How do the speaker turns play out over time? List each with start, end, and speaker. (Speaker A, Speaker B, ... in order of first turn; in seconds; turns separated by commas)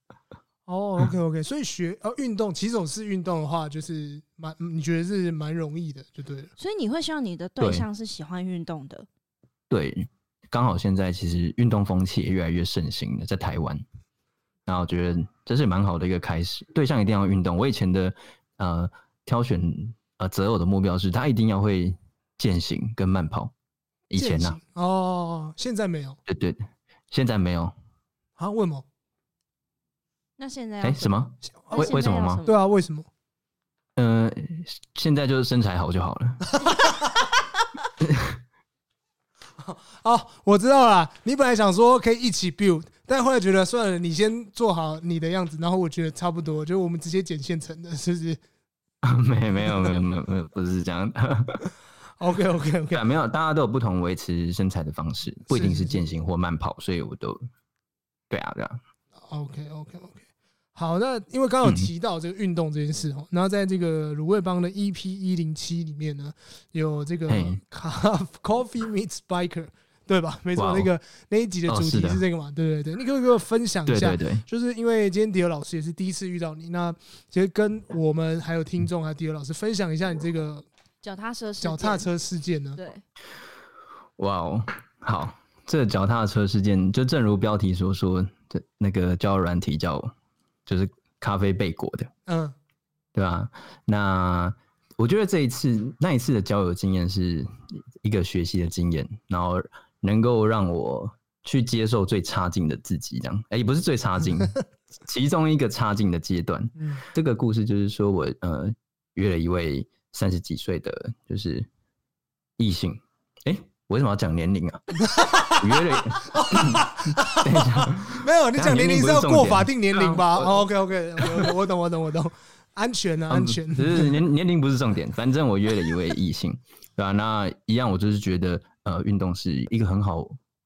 Speaker A: 0.7-6.5, Speaker B: 6.6-9.1, Speaker C: 7.6-7.9, Speaker C: 9.7-13.8, Speaker C: 14.7-23.5, Speaker C: 24.1-24.6, Speaker A: 24.1-26.2, Speaker C: 26.3-27.7, Speaker A: 28.4-28.9, Speaker B: 30.4-31.2, Speaker C: 30.8-32.4, Speaker B: 31.7-32.6, Speaker A: 32.4-33.1, Speaker C: 34.0-36.6, Speaker C: 38.0-38.4, Speaker A: 39.6-48.4, Speaker C: 49.0-51.7, Speaker A: 49.6-50.0, Speaker A: 52.2-53.0, Speaker C: 52.9-57.4, Speaker A: 55.5-56.0, Speaker C: 58.3-58.8, Speaker A: 59.2-60.2, Speaker A: 60.8-80.7, Speaker C: 67.3-67.6, Speaker C: 70.6-70.9, Speaker C: 71.7-72.2, Speaker C: 73.9-74.4, Speaker B: 81.0-82.1, Speaker A: 81.6-82.8, Speaker B: 82.8-83.0, Speaker C: 84.2-90.1, Speaker C: 90.7-92.1, Speaker A: 92.3-92.5, Speaker C: 93.2-111.7, Speaker A: 106.8-107.0, Speaker C: 112.6-120.7, Speaker A: 115.0-124.2, Speaker C: 121.2-121.5, Speaker C: 123.3-130.4